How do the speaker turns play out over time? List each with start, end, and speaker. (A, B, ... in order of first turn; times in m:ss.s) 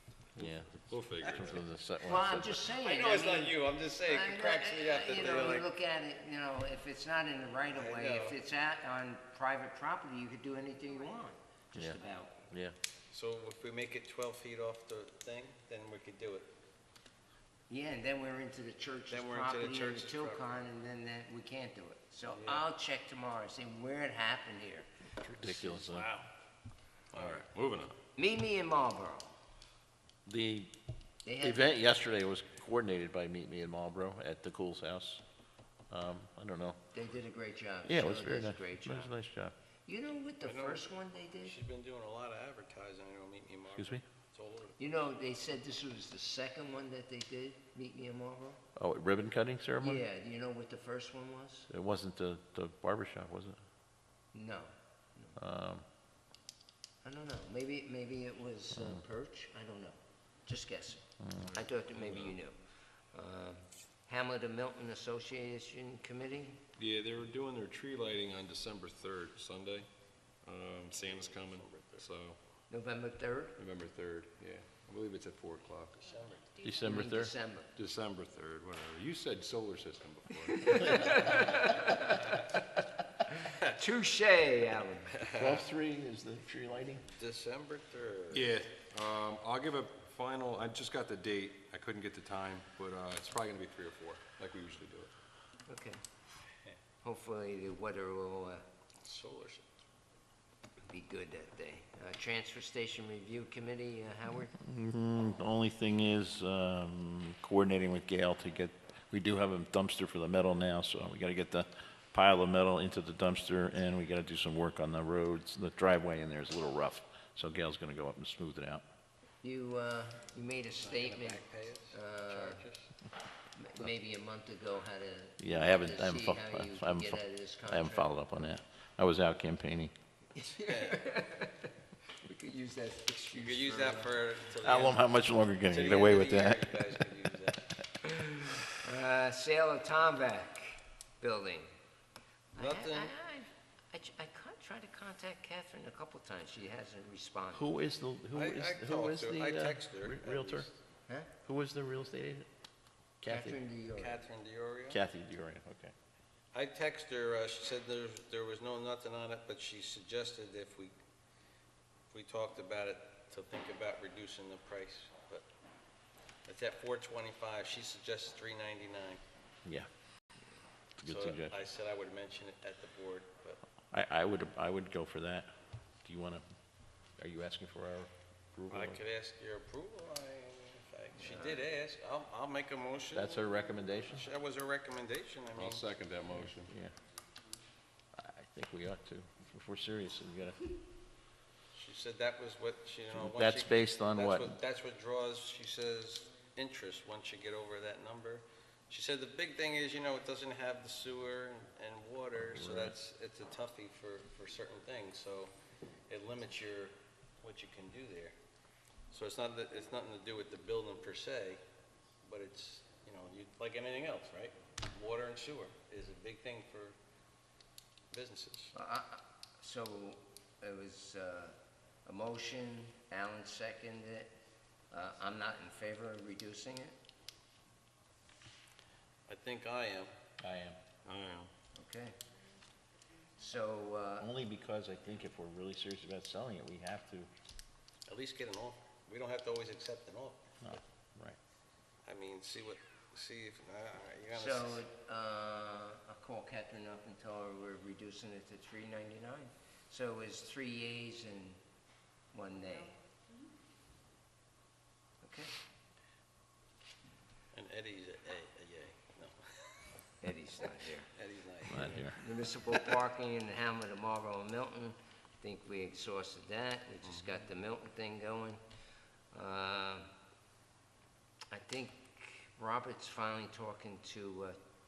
0:00.4-0:02.7 A
0:00.9-0:01.6 B
0:02.0-0:12.5 C
0:02.8-0:05.7 D
0:07.7-0:08.4 D
0:12.5-0:12.7 A
0:13.1-0:16.5 D
0:17.7-0:24.9 C
0:19.1-0:20.6 D
0:22.3-0:22.6 D
0:25.3-0:26.1 A
0:25.4-0:26.3 D
0:27.1-0:27.5 D
0:27.2-0:27.9 B
0:28.2-0:29.3 C
0:30.2-0:30.7 A
0:31.2-0:31.7 C
0:31.4-0:35.2 A
0:35.9-0:36.8 A
0:36.9-0:39.1 C
0:37.8-0:39.5 A
0:39.8-0:41.6 C
0:40.4-0:40.9 D
0:41.4-0:44.8 D
0:43.8-0:44.0 A
0:44.8-0:48.6 C
0:48.8-0:50.0 A
0:49.8-0:51.7 C
0:51.7-0:53.6 A
0:54.3-0:55.4 C
0:55.4-0:55.8 A
0:57.0-1:02.6 C
0:58.7-0:59.0 A
1:01.2-1:01.6 A
1:02.0-1:02.3 B
1:03.1-1:06.6 C
1:06.8-1:09.9 B
1:10.4-1:12.4 B
1:10.9-1:12.1 D
1:12.7-1:13.6 C
1:13.6-1:16.0 B
1:16.0-1:16.6 D
1:16.6-1:17.3 A
1:16.8-1:17.7 C
1:17.8-1:21.8 B
1:20.5-1:22.6 C
1:23.4-1:25.2 C
1:25.1-1:25.6 D
1:25.3-1:27.0 A
1:27.1-1:28.5 D
1:28.3-1:35.1 B
1:35.7-1:36.0 C
1:37.0-1:38.6 C
1:39.0-1:39.6 D
1:40.9-1:44.5 C
1:44.5-1:58.8 A
1:59.4-2:02.6 C
2:00.7-2:02.9 D
2:03.5-2:08.4 C
2:05.4-2:09.9 A
2:10.3-2:11.7 C
2:10.6-2:11.0 D
2:12.2-2:14.1 C
2:13.3-2:15.0 D
2:14.6-2:16.6 A
2:15.7-2:17.7 D
2:18.0-2:21.7 C
2:22.5-2:27.7 C
2:22.6-2:23.1 D
2:27.5-2:30.7 A
2:28.3-2:30.7 D
2:31.4-2:32.5 A
2:33.2-2:33.6 A
2:33.2-2:34.2 C
2:33.9-2:35.0 D
2:34.9-2:35.9 A
2:36.5-2:40.9 D
2:42.1-2:45.4 D
2:46.4-2:49.2 D
2:51.0-2:51.6 A
2:51.0-2:53.6 D
2:53.9-2:55.5 A
2:56.0-2:56.4 A
2:57.2-2:59.0 A
2:58.7-3:03.4 D
3:01.2-3:01.6 C
3:03.1-3:04.3 A
3:04.1-3:05.9 D
3:05.5-3:06.7 B
3:06.3-3:06.9 A
3:08.1-3:10.7 A
3:11.7-3:25.5 D
3:13.1-3:14.5 A
3:22.4-3:22.9 A
3:26.1-3:28.3 D
3:29.1-3:31.6 D
3:32.2-3:37.0 D
3:38.1-3:38.7 D
3:38.7-3:44.3 C
3:44.9-3:46.9 C
3:49.3-3:50.1 D
3:50.4-3:50.8 A
3:51.1-3:51.5 B
3:51.7-3:52.1 C
3:53.4-3:54.3 C
3:54.2-3:57.3 A
3:58.1-4:00.4 D
4:00.6-4:01.4 A
4:02.0-4:04.8 D
4:04.3-4:11.6 C
4:12.3-4:12.9 C
4:15.2-4:15.5 C
4:17.5-4:19.9 D
4:20.2-4:21.1 C
4:21.1-4:22.0 D
4:21.7-4:22.2 A
4:21.7-4:28.6 C
4:29.3-4:30.1 C
4:31.5-4:34.6 C